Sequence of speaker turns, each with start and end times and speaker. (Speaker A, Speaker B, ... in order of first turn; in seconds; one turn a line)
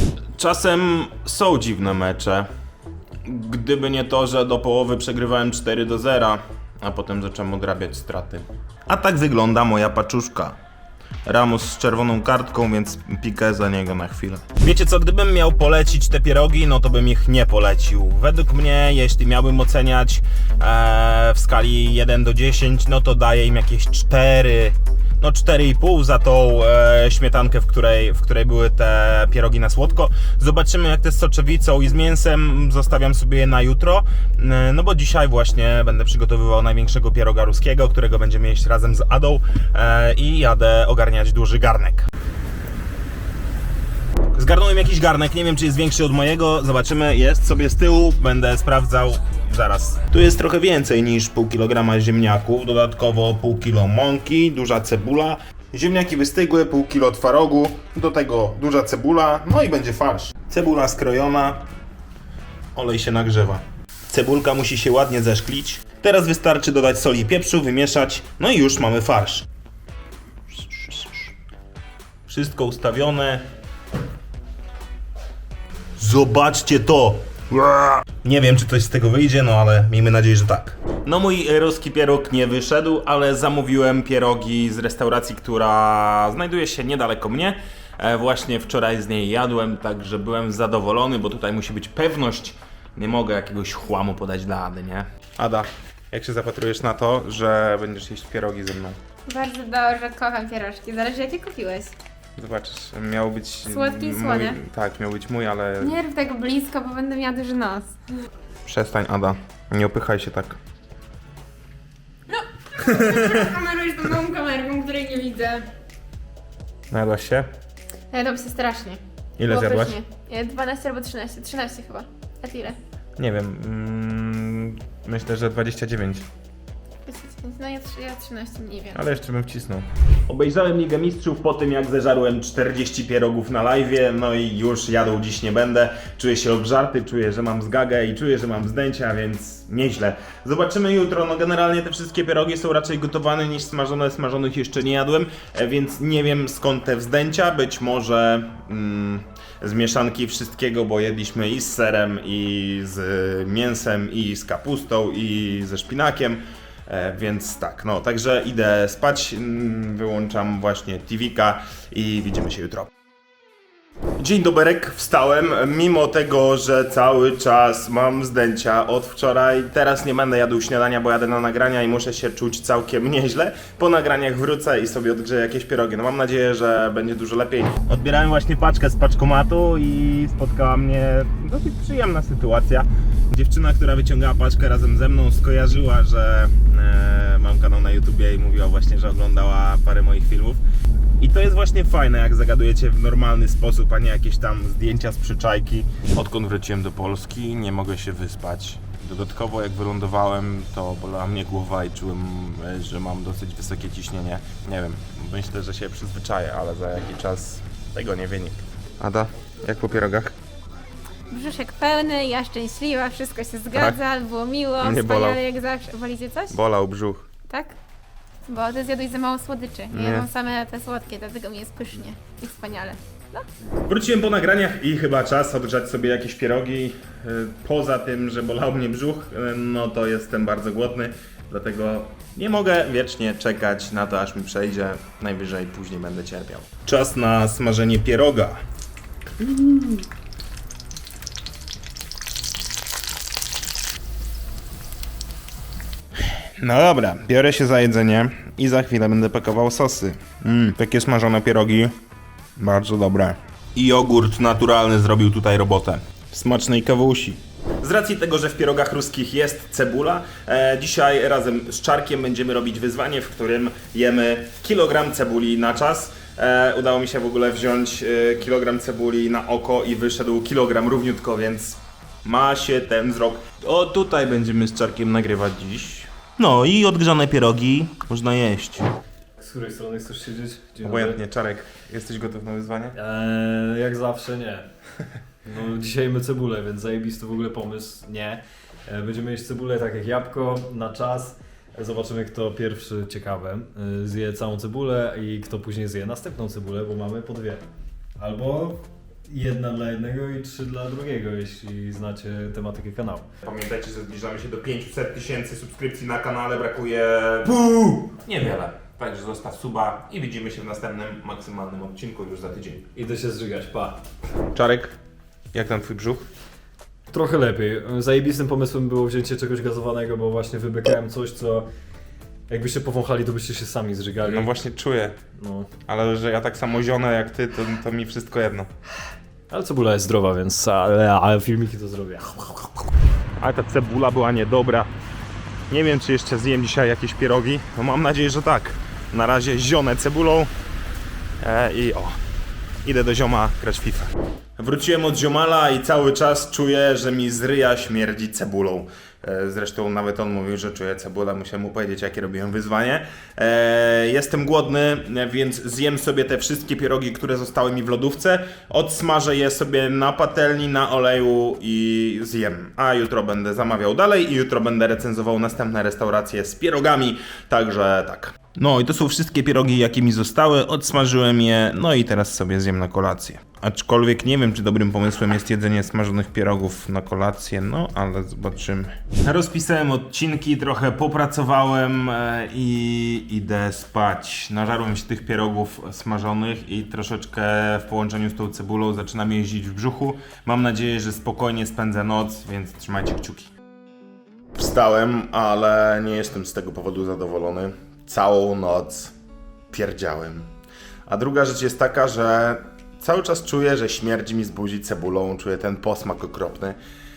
Speaker A: 0.4-2.5
Speaker A: 3.2-10.6
Speaker A: 11.2-42.1
Speaker A: 44.3-61.6
Speaker A: 62.8-69.5
Speaker A: 72.3-73.5
Speaker A: 76.0-99.0
Speaker B: 99.3-101.9
Speaker A: 102.4-106.0
Speaker B: 103.7-104.6
Speaker B: 105.8-108.0
Speaker A: 108.7-110.6
Speaker B: 112.3-115.7
Speaker A: 112.8-113.5
Speaker A: 116.9-117.5
Speaker B: 118.1-122.8
Speaker A: 119.4-120.0
Speaker A: 123.2-126.3
Speaker B: 127.1-129.0
Speaker A: 128.9-162.9
Speaker A: 164.2-190.6
Speaker A: 191.2-210.3
Speaker B: 211.3-216.6
Speaker A: 213.7-214.0
Speaker A: 214.8-215.4
Speaker A: 216.5-217.3
Speaker B: 217.5-217.8
Speaker B: 218.5-223.5
Speaker A: 219.9-220.3
Speaker A: 223.8-238.6
Speaker A: 239.4-239.9
Speaker A: 246.6-251.9
Speaker A: 252.6-278.9
Speaker C: 279.4-281.2
Speaker A: 280.8-282.9
Speaker C: 283.0-284.7
Speaker C: 285.4-297.6
Speaker C: 298.2-303.3
Speaker A: 303.4-312.9
Speaker C: 312.9-314.0
Speaker A: 314.5-314.9
Speaker A: 315.5-316.3
Speaker C: 317.1-321.7
Speaker C: 322.5-324.5
Speaker A: 324.2-325.2
Speaker C: 325.4-325.7
Speaker A: 325.9-328.7
Speaker C: 329.5-332.8
Speaker A: 333.4-334.9
Speaker A: 335.7-340.5
Speaker A: 341.4-342.2
Speaker A: 342.8-393.5
Speaker A: 394.6-399.1
Speaker A: 399.7-400.5
Speaker A: 401.1-406.8